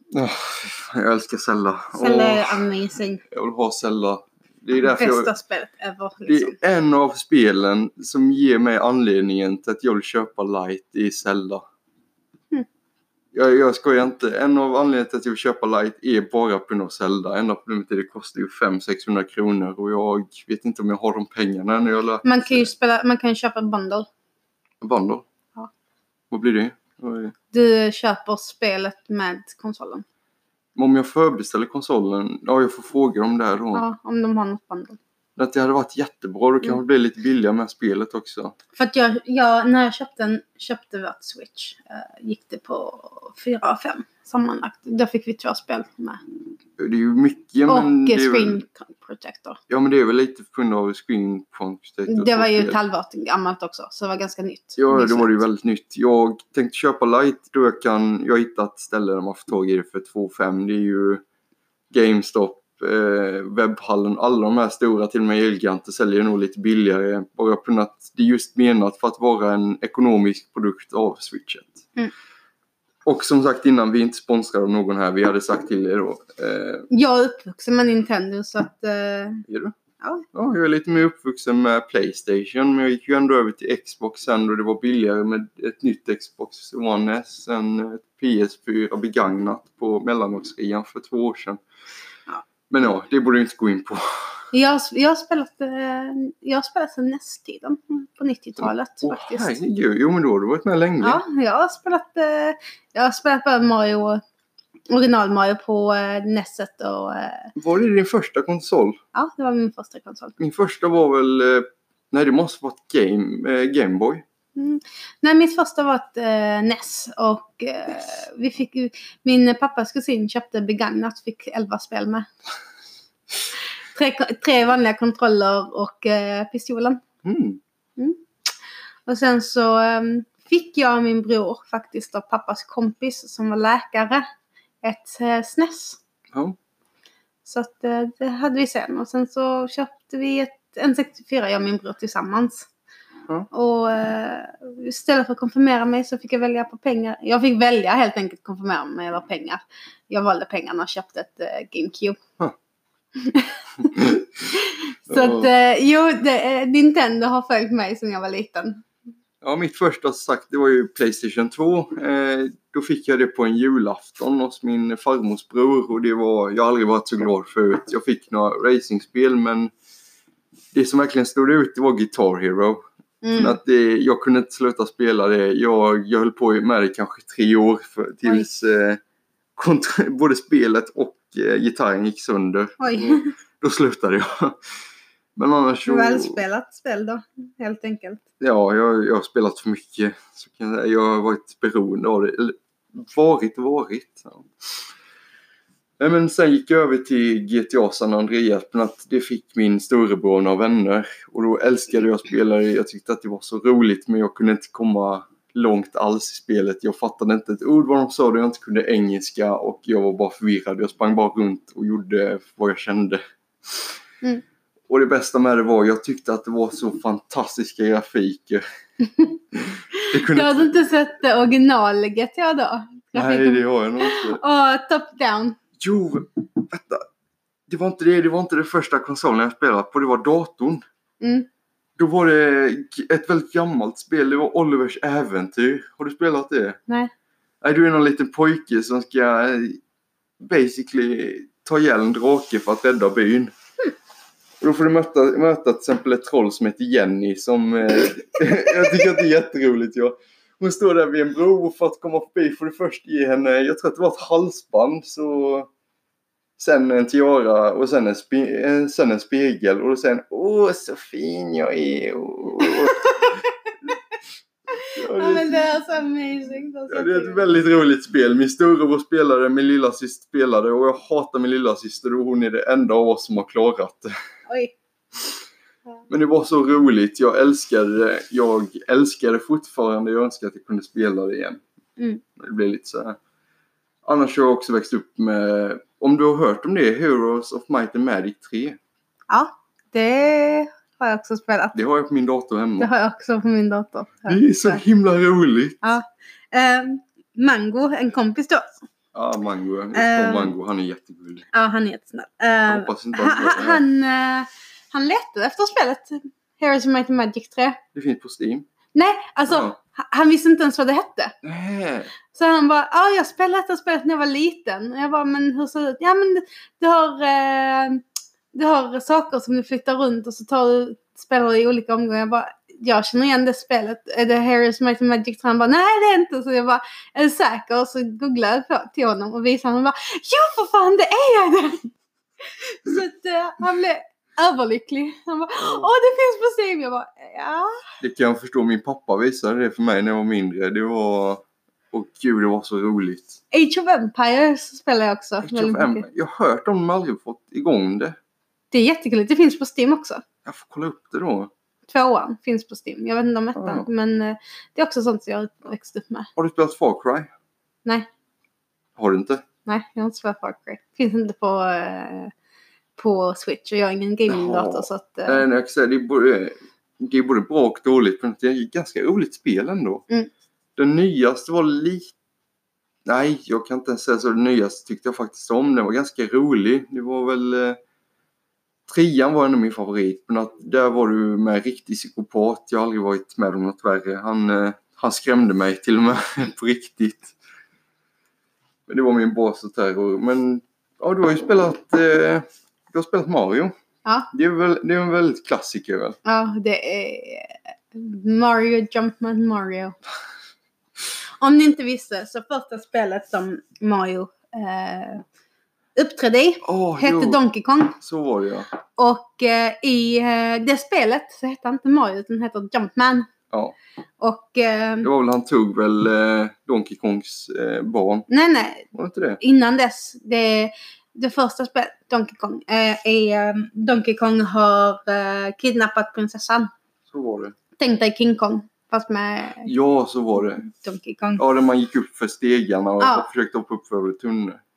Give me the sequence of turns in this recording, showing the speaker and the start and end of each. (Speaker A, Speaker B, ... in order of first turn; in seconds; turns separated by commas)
Speaker A: 0.1-2.7, Speaker B: 1.9-3.2, Speaker A: 3.2-5.3, Speaker B: 4.8-6.6, Speaker A: 6.3-11.6, Speaker A: 13.3-22.7, Speaker B: 22.2-24.1, Speaker A: 24.8-25.2, Speaker A: 26.3-27.3, Speaker B: 27.5-30.1, Speaker A: 30.8-33.8, Speaker B: 33.7-35.0, Speaker A: 35.4-38.5, Speaker B: 38.8-46.2, Speaker A: 46.8-48.6, Speaker B: 47.7-49.6, Speaker A: 49.7-52.8, Speaker B: 52.1-55.4, Speaker A: 54.8-61.2, Speaker A: 61.9-71.8, Speaker A: 73.0-76.9, Speaker B: 76.9-79.5, Speaker A: 79.5-79.8, Speaker A: 80.3-91.6, Speaker A: 92.7-94.0, Speaker B: 94.5-99.6, Speaker A: 98.6-101.2, Speaker B: 101.0-104.2, Speaker B: 104.9-107.5, Speaker A: 107.6-109.0, Speaker B: 109.1-110.3, Speaker A: 110.4-114.2, Speaker B: 114.6-122.3, Speaker B: 123.9-127.0, Speaker A: 127.2-127.6, Speaker B: 129.1-134.3, Speaker B: 134.8-136.0, Speaker B: 137.5-142.7, Speaker B: 143.5-152.2, Speaker B: 153.2-158.8, Speaker A: 153.9-154.5, Speaker A: 155.1-155.5, Speaker A: 159.4-169.7, Speaker A: 170.7-172.8, Speaker B: 173.2-173.6, Speaker A: 173.3-179.0, Speaker A: 179.6-184.6, Speaker B: 182.8-183.3, Speaker A: 185.4-186.4, Speaker B: 185.9-188.2, Speaker A: 188.4-194.8, Speaker A: 196.0-213.9, Speaker A: 214.9-218.6, Speaker B: 219.0-219.3, Speaker A: 219.5-220.8, Speaker B: 219.9-225.6, Speaker A: 223.1-224.4, Speaker A: 225.8-227.0, Speaker A: 227.7-230.8, Speaker B: 231.2-231.5, Speaker A: 232.0-236.8, Speaker A: 237.6-239.8, Speaker A: 240.4-243.5, Speaker A: 244.6-255.7, Speaker A: 256.6-263.4, Speaker B: 262.6-263.5, Speaker B: 264.7-267.5, Speaker A: 264.9-265.6, Speaker A: 266.9-274.1, Speaker B: 274.5-274.8, Speaker A: 276.1-281.6, Speaker A: 282.4-283.2, Speaker A: 284.0-288.8, Speaker B: 289.3-291.8, Speaker A: 291.8-292.9, Speaker B: 292.8-294.8, Speaker A: 294.3-295.8, Speaker B: 295.8-298.8, Speaker A: 299.1-301.5, Speaker B: 299.9-300.5, Speaker B: 301.5-307.8, Speaker A: 302.7-303.8, Speaker A: 307.9-308.7, Speaker B: 308.9-311.4, Speaker A: 309.5-309.8, Speaker A: 311.4-312.1, Speaker B: 312.3-331.9, Speaker B: 332.4-337.8, Speaker A: 335.6-335.9, Speaker A: 338.0-343.4, Speaker B: 343.5-346.0, Speaker A: 345.4-348.2, Speaker B: 348.7-350.2, Speaker A: 350.4-351.5, Speaker B: 351.9-356.3, Speaker A: 353.6-353.9, Speaker A: 356.4-357.3, Speaker A: 359.0-359.4, Speaker B: 359.6-362.3, Speaker B: 363.0-365.4, Speaker A: 364.3-370.0, Speaker A: 370.8-372.1, Speaker A: 373.1-377.8, Speaker A: 378.9-387.4, Speaker A: 388.9-393.7, Speaker A: 394.3-396.2, Speaker B: 396.2-400.0, Speaker B: 401.4-405.2, Speaker B: 406.0-408.0, Speaker A: 406.6-407.4, Speaker A: 408.0-408.7, Speaker B: 408.9-413.3, Speaker A: 413.5-413.8, Speaker B: 414.2-415.1, Speaker A: 415.0-418.3, Speaker B: 418.3-418.9, Speaker A: 418.9-419.4, Speaker B: 419.4-426.7, Speaker A: 427.1-427.6, Speaker B: 427.8-429.7, Speaker A: 429.6-430.6, Speaker B: 430.6-431.4, Speaker A: 431.4-434.6, Speaker B: 433.0-433.3